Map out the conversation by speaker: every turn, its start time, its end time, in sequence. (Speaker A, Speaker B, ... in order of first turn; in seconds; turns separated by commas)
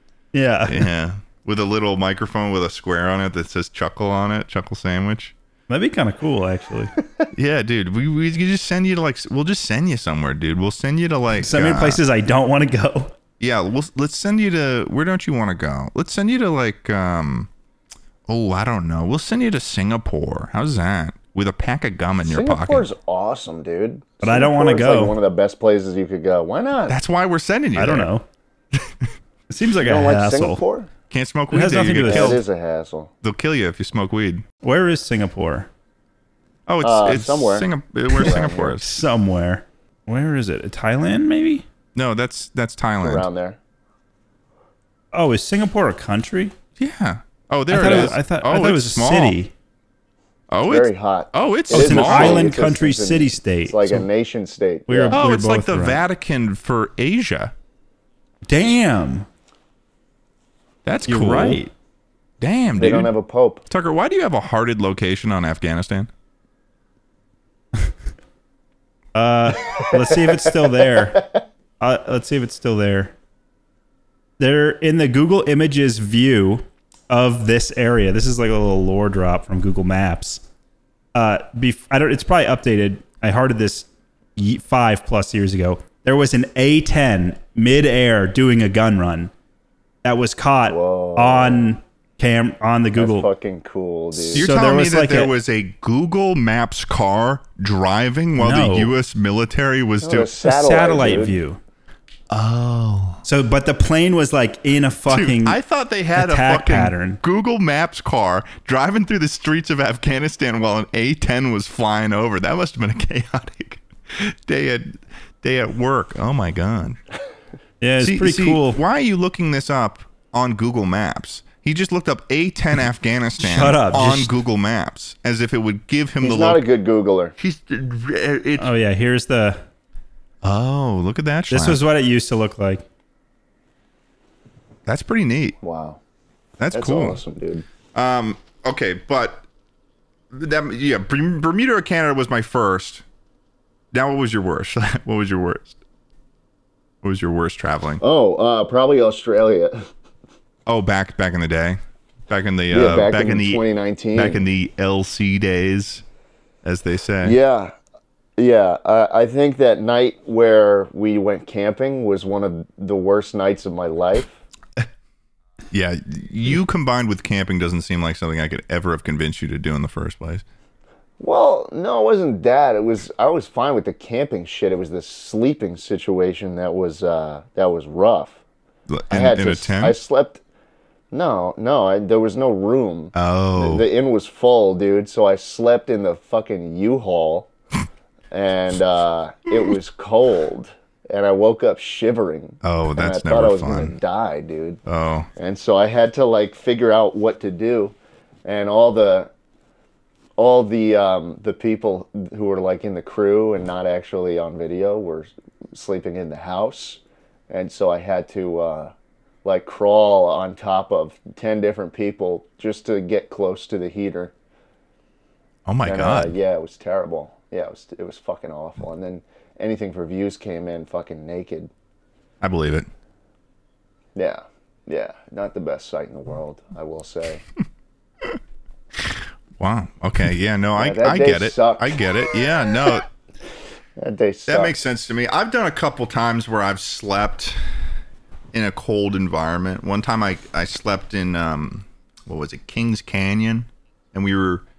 Speaker A: 0.3-0.9, Speaker B: 0.7-5.3, Speaker A: 5.7-7.0, Speaker B: 7.3-12.0, Speaker A: 11.4-13.1, Speaker B: 13.4-17.5, Speaker B: 18.3-22.9, Speaker C: 22.2-27.0, Speaker A: 24.2-25.1, Speaker B: 26.9-28.1, Speaker A: 27.8-28.2, Speaker B: 28.7-29.1, Speaker A: 29.5-30.6, Speaker C: 29.8-30.9, Speaker B: 31.1-32.4, Speaker A: 31.5-32.4, Speaker C: 32.0-33.1, Speaker B: 33.2-34.5, Speaker A: 34.6-35.7, Speaker B: 36.7-39.0, Speaker C: 36.8-38.8, Speaker A: 38.8-41.6, Speaker B: 42.0-43.3, Speaker C: 43.0-43.6, Speaker A: 45.1-46.5, Speaker B: 46.8-49.4, Speaker A: 47.7-49.5, Speaker B: 50.5-52.5, Speaker C: 50.7-55.2, Speaker A: 51.7-54.1, Speaker A: 54.9-56.0, Speaker B: 55.1-57.5, Speaker A: 58.5-59.3, Speaker B: 60.9-61.6, Speaker A: 61.1-61.7, Speaker B: 62.4-63.1, Speaker C: 62.8-63.6, Speaker B: 63.7-66.1, Speaker A: 69.1-71.3, Speaker C: 69.7-71.4, Speaker A: 71.8-73.1, Speaker A: 74.4-80.4, Speaker A: 81.2-89.3, Speaker A: 90.0-93.3, Speaker C: 90.7-91.7, Speaker C: 93.0-94.5, Speaker A: 94.2-95.3, Speaker B: 94.3-100.3, Speaker A: 98.4-98.9, Speaker C: 100.0-101.4, Speaker A: 100.4-101.6, Speaker B: 102.3-103.2, Speaker A: 103.2-105.6, Speaker B: 105.1-117.0, Speaker A: 106.2-107.2, Speaker A: 117.8-118.8, Speaker B: 118.0-126.6, Speaker A: 123.4-124.3, Speaker C: 126.2-127.3, Speaker B: 127.4-128.7, Speaker A: 128.6-129.6, Speaker B: 130.4-131.8, Speaker A: 131.5-132.8, Speaker B: 134.9-135.6, Speaker C: 135.6-136.0, Speaker B: 136.6-137.2, Speaker C: 136.7-137.7, Speaker B: 137.9-139.5, Speaker B: 140.3-143.0, Speaker B: 143.9-145.8, Speaker B: 147.0-148.0, Speaker C: 148.0-149.9, Speaker B: 150.7-153.6, Speaker C: 152.7-154.4, Speaker B: 154.1-156.0, Speaker B: 156.6-157.4, Speaker C: 157.2-157.7, Speaker C: 158.4-164.4, Speaker B: 165.7-170.4, Speaker C: 171.2-178.4, Speaker B: 178.9-180.0, Speaker C: 179.1-180.4, Speaker C: 181.1-187.5, Speaker B: 183.1-183.9, Speaker C: 188.3-194.8, Speaker B: 192.6-194.0, Speaker B: 194.9-195.3, Speaker C: 195.4-199.3, Speaker C: 200.4-208.9, Speaker C: 209.4-214.3, Speaker B: 215.7-216.4, Speaker C: 215.8-221.7, Speaker B: 222.4-222.9, Speaker C: 224.2-227.4, Speaker B: 229.0-233.1, Speaker C: 230.8-232.0, Speaker C: 234.0-234.8, Speaker B: 234.5-237.6, Speaker B: 238.5-244.7